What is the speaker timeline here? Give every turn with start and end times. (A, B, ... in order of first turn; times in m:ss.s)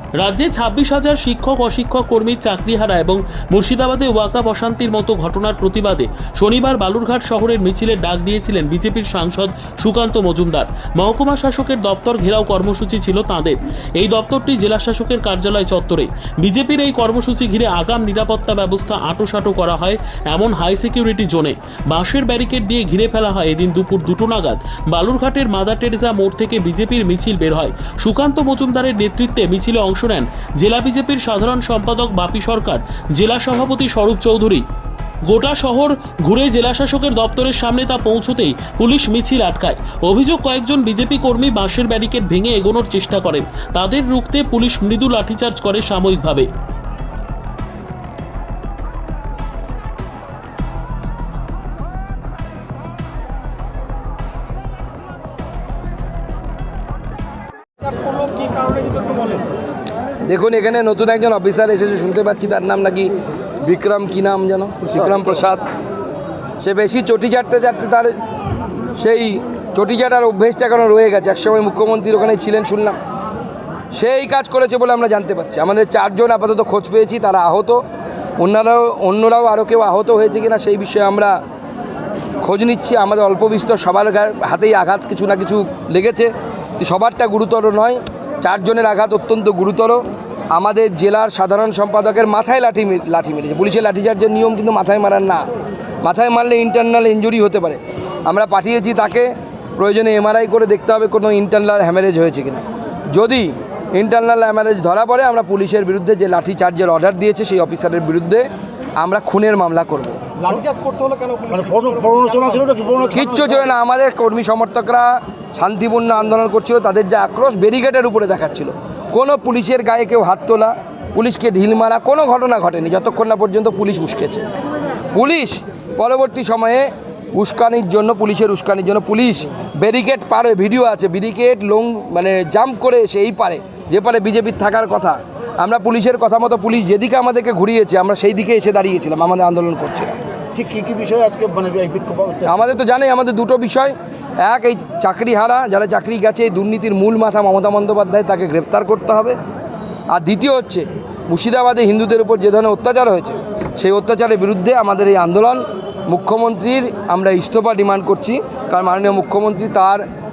0:00.2-0:34.6 A
0:35.3-0:46.5 A
0:58.2-0:59.4 B
1:00.2-1:03.1 C
1:03.6-1:05.6 C
1:06.6-1:08.1 C
1:09.0-1:13.0 C
1:14.0-1:17.8 C
1:18.4-1:21.4 C
1:22.4-1:30.0 C
1:30.5-1:35.5 C
1:36.0-1:48.5 C
1:49.0-1:50.2 C
1:50.5-1:53.1 B
1:51.9-1:52.9 D
1:53.1-2:04.4 C
2:05.1-2:20.1 C
2:20.6-2:22.4 D
2:22.4-2:29.4 C
2:30.1-2:40.0 C